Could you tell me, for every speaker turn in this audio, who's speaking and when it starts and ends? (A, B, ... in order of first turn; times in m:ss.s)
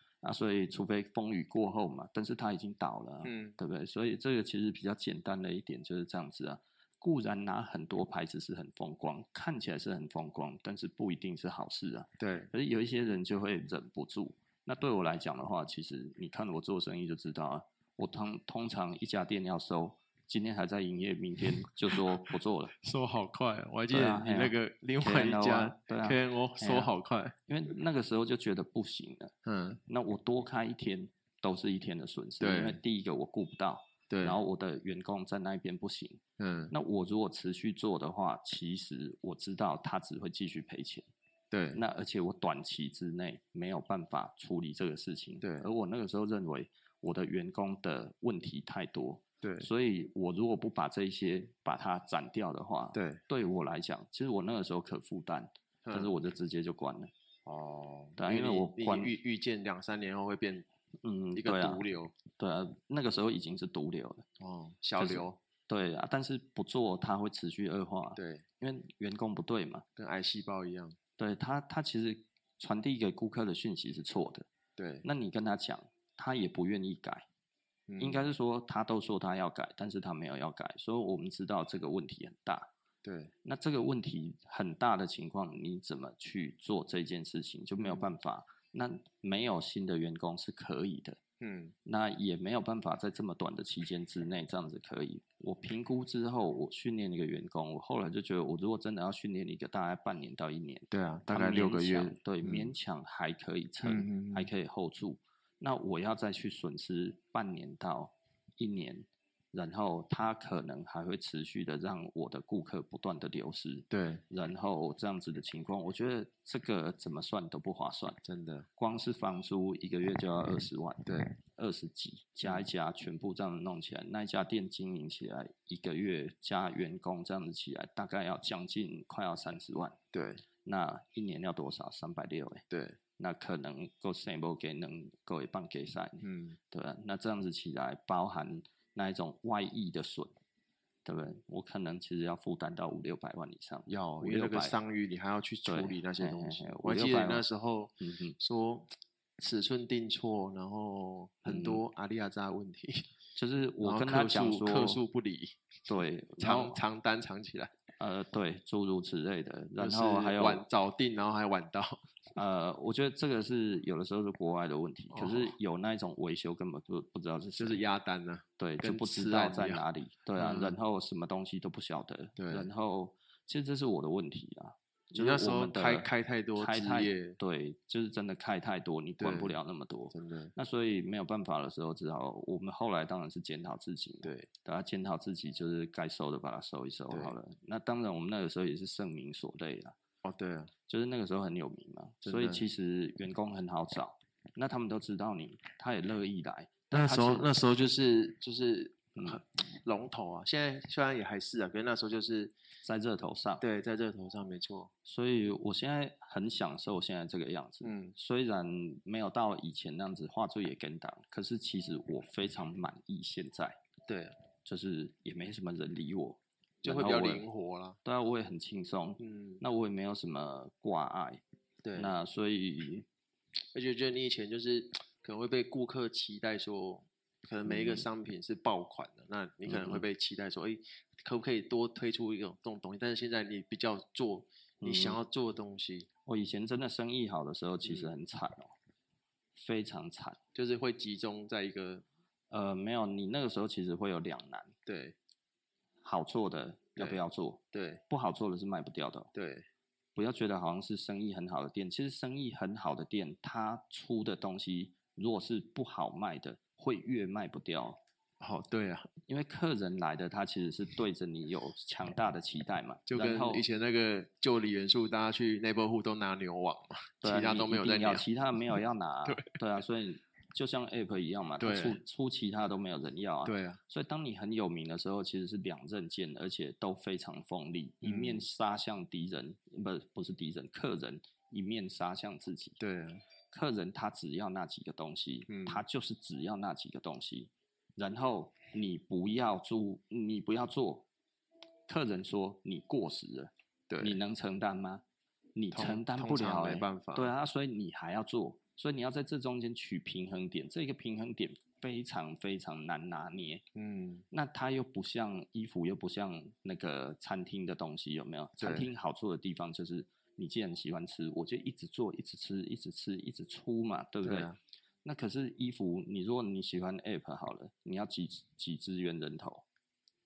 0:00.2-0:22.8 A
0:03.2-0:03.6 B
0:12.2-0:12.5 B
0:21.6-0:27.4 B
0:23.9-0:26.9 A
0:27.5-0:29.3 A
0:29.4-0:29.8 B
0:29.9-0:41.1 A
0:32.4-0:32.8 B
0:34.1-0:34.4 B
0:36.4-0:36.7 B
0:41.5-0:41.8 B
0:41.7-0:57.1 A
0:45.4-0:45.7 B
0:49.4-0:49.7 B
0:52.9-0:53.2 B
0:55.8-0:56.1 B
0:57.5-1:00.7 B
0:58.2-0:59.1 A
1:01.0-1:04.3 A
1:01.3-1:02.1 B
1:04.4-1:05.4 B
1:05.0-1:09.8 A
1:08.2-1:08.5 B
1:10.0-1:11.0 B
1:11.2-1:14.5 A
1:14.8-1:15.0 B
1:15.0-1:17.2 A
1:17.9-1:18.3 B
1:18.0-1:22.7 A
1:23.0-1:23.3 B
1:23.4-1:31.2 A
1:31.4-1:31.8 B
1:31.8-1:58.2 A
1:40.9-1:42.7 B
1:43.8-1:44.5 B
1:53.9-1:54.2 B
1:58.2-1:58.7 B
1:58.8-2:10.0 A
2:01.1-2:01.3 B
2:10.1-2:10.4 B
2:10.6-2:12.6 A
2:12.7-2:13.0 B
2:13.2-2:20.3 A
2:16.2-2:16.6 B
2:21.0-2:24.8 A
2:23.9-2:33.1 B
2:25.7-2:27.4 A
2:28.0-2:28.4 A
2:31.5-2:31.8 A
2:33.4-2:35.0 A
2:33.8-2:37.7 B
2:35.9-2:36.8 A
2:38.0-2:40.6 A
2:39.8-2:42.0 B
2:42.4-2:47.8 A
2:45.1-2:45.6 B
2:47.6-2:49.8 B
2:48.6-3:10.0 A
2:50.4-2:50.8 B
2:52.4-2:52.7 B
2:55.1-2:57.4 B
2:59.2-2:59.6 B
3:00.1-3:00.5 B
3:04.2-3:04.5 B
3:07.1-3:07.4 B
3:10.2-3:10.7 B
3:10.9-3:17.5 A
3:12.2-3:12.7 B
3:16.9-3:22.6 B
3:19.2-3:19.4 A
3:22.8-3:23.6 A
3:23.6-3:24.9 B
3:25.0-3:33.8 A
3:27.8-3:28.2 B
3:34.1-3:34.4 B
3:34.6-3:37.5 A
3:36.8-3:38.0 B
3:38.0-3:41.4 A
3:39.2-3:39.6 B
3:41.8-3:42.1 B
3:42.0-3:43.1 A
3:43.7-3:56.1 B
3:47.7-3:48.0 A
3:49.7-3:50.0 A
3:54.8-3:55.2 A
3:56.3-3:58.7 A
3:57.8-3:58.1 B
3:59.6-4:00.4 A
4:00.6-4:02.0 B
4:02.5-4:04.7 A
4:04.9-4:05.2 B
4:06.0-4:09.3 A
4:07.0-4:08.0 B
4:09.3-4:09.7 B
4:10.2-4:18.0 A
4:18.4-4:19.1 B
4:19.3-4:23.6 A
4:23.1-4:28.3 B
4:27.2-4:42.8 A
4:29.3-4:29.6 B
4:31.6-4:32.0 B
4:33.4-4:33.8 B
4:38.0-4:38.4 B
4:42.8-4:43.2 B
4:43.5-4:51.1 A
4:45.5-4:45.8 B
4:51.9-4:55.0 A
4:53.9-4:54.2 B
4:55.6-5:03.6 A
4:55.7-4:57.3 B
5:03.8-5:04.2 B
5:04.3-5:14.5 A
5:08.6-5:08.9 B
5:14.2-5:14.6 B
5:15.0-5:19.6 A